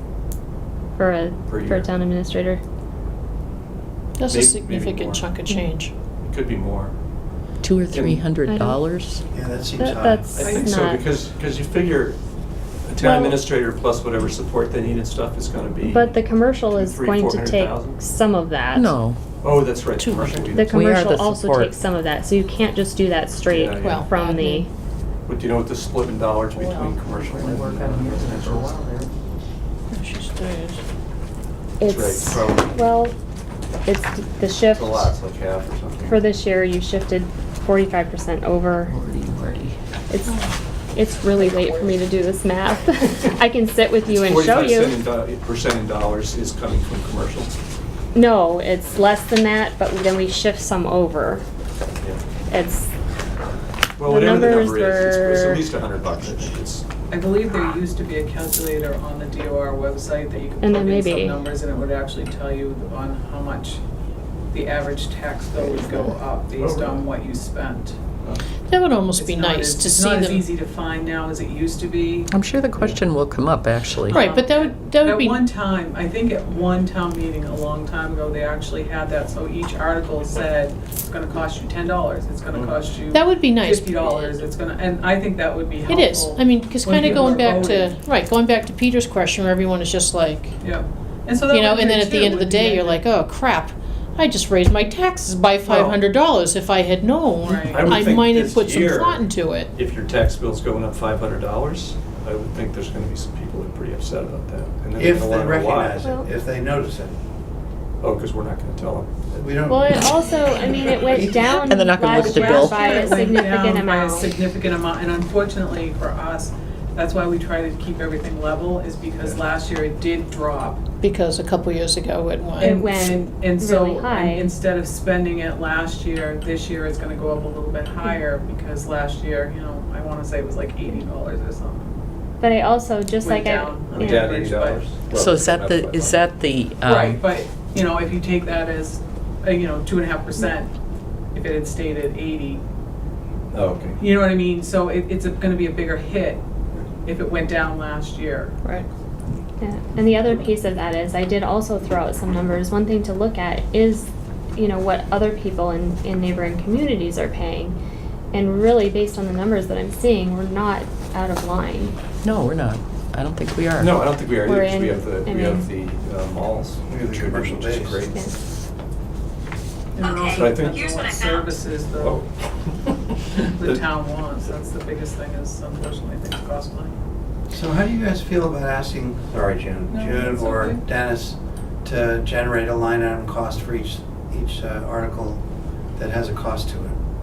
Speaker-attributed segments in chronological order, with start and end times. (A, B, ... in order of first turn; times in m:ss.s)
0:01.0-0:02.6 A
0:01.5-0:01.8 B
0:04.2-0:05.9 C
0:04.3-0:05.4 B
0:06.2-0:06.9 B
0:07.6-0:09.2 D
0:07.9-0:08.2 B
0:08.4-0:08.8 A
0:09.3-0:10.3 E
0:09.8-0:11.0 A
0:10.3-0:12.2 B
0:10.4-0:10.7 F
0:12.8-0:18.0 B
0:13.0-0:13.4 A
0:15.9-0:18.9 A
0:18.7-0:19.2 D
0:19.4-0:20.8 B
0:20.0-0:21.7 D
0:20.5-0:24.7 A
0:23.5-0:24.0 B
0:23.8-0:24.6 C
0:25.2-0:28.8 B
0:26.6-0:26.9 C
0:26.6-0:29.1 D
0:29.9-0:30.8 C
0:31.8-0:33.1 A
0:31.8-0:32.7 B
0:33.8-0:35.1 A
0:34.7-0:36.2 B
0:36.1-0:38.9 A
0:38.9-0:39.8 D
0:40.1-0:40.4 A
0:40.3-0:40.5 C
0:40.9-0:45.0 A
0:44.0-0:47.6 B
0:48.1-0:51.4 A
0:52.5-0:52.9 A
0:54.0-0:56.8 B
0:54.0-0:55.6 A
0:57.1-1:03.8 F
1:00.6-1:01.4 A
1:04.5-1:08.0 F
1:06.6-1:07.1 B
1:08.7-1:10.4 C
1:09.1-1:12.3 F
1:12.3-1:14.3 D
1:14.1-1:28.0 F
1:14.1-1:15.4 C
1:23.1-1:24.4 C
1:25.9-1:30.6 C
1:26.9-1:27.7 B
1:30.6-1:33.0 F
1:31.5-1:39.7 C
1:35.7-1:36.0 B
1:37.4-1:37.9 F
1:37.7-1:46.0 B
1:45.0-1:47.2 E
1:48.0-1:49.2 B
1:49.3-1:52.3 E
1:49.7-1:54.3 A
1:51.6-1:52.9 D
1:52.2-2:00.8 F
2:01.0-2:02.8 C
2:02.6-2:12.0 F
2:02.6-2:04.5 A
2:12.4-2:14.3 A
2:13.2-2:14.9 F
2:13.9-2:16.2 B
2:15.1-2:17.2 D
2:16.8-2:20.7 F
2:21.3-2:22.6 F
2:23.5-2:24.0 B
2:24.0-2:26.4 F
2:27.0-2:28.6 F
2:29.6-2:37.8 A
2:38.3-2:41.9 A
2:42.2-2:43.9 D
2:43.8-2:48.3 B
2:44.4-2:45.6 A
2:46.9-2:48.0 E
2:49.9-2:52.2 F
2:50.3-2:50.8 B
2:52.0-2:52.9 B
2:53.5-2:56.9 F
2:57.5-3:07.0 E
2:59.9-3:00.8 F